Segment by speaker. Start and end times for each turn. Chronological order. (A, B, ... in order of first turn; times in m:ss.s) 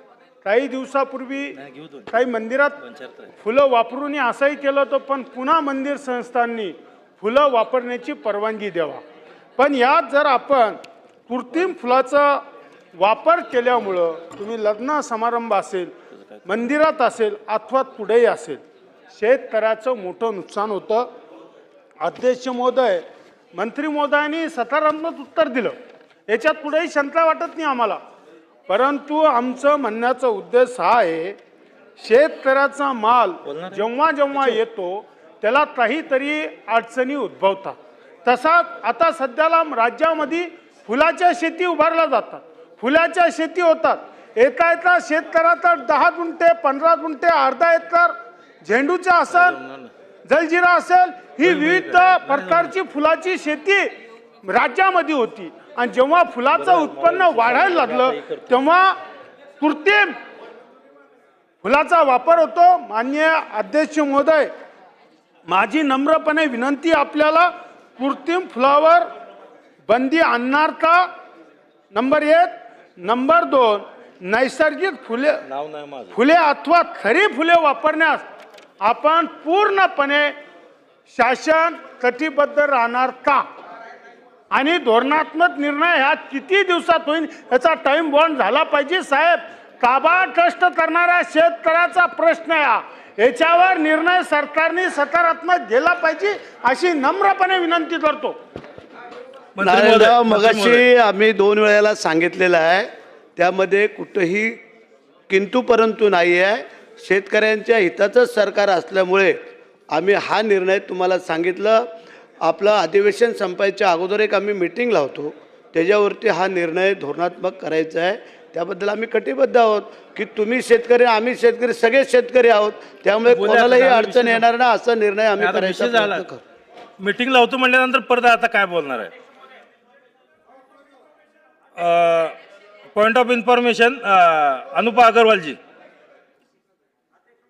0:00.4-0:01.6 A
0:01.6-0:02.1 B
0:02.1-0:02.8 A
0:02.8-0:03.3 B
0:03.4-0:09.0 A
0:09.6-0:12.4 A
0:13.0-0:15.9 A
0:16.4-0:18.6 A
0:19.2-0:21.0 A
0:22.0-0:25.7 A
0:26.3-0:28.0 A
0:28.7-0:31.4 A
0:32.0-0:48.1 A
0:33.4-0:33.8 B
0:34.3-0:34.6 B
0:48.6-0:49.6 A
0:49.3-0:49.9 B
0:50.3-0:53.9 A
0:51.4-0:52.7 B
0:54.4-0:59.0 A
0:56.5-0:58.6 B
0:59.6-1:00.1 A
1:01.6-1:04.5 A
1:05.5-1:09.0 A
1:09.9-1:11.1 A
1:11.9-1:15.4 A
1:15.5-1:16.1 B
1:16.1-1:18.2 A
1:18.8-1:20.3 A
1:21.1-1:23.4 A
1:24.5-1:38.4 A
1:39.6-1:40.8 B
1:39.6-1:44.6 C
1:45.3-1:49.4 C
1:49.9-1:51.8 C
1:52.4-2:06.4 C
2:03.3-2:04.4 B
2:05.4-2:06.2 B
2:07.0-2:09.1 B
2:11.8-2:12.4 B
2:12.9-2:15.6 B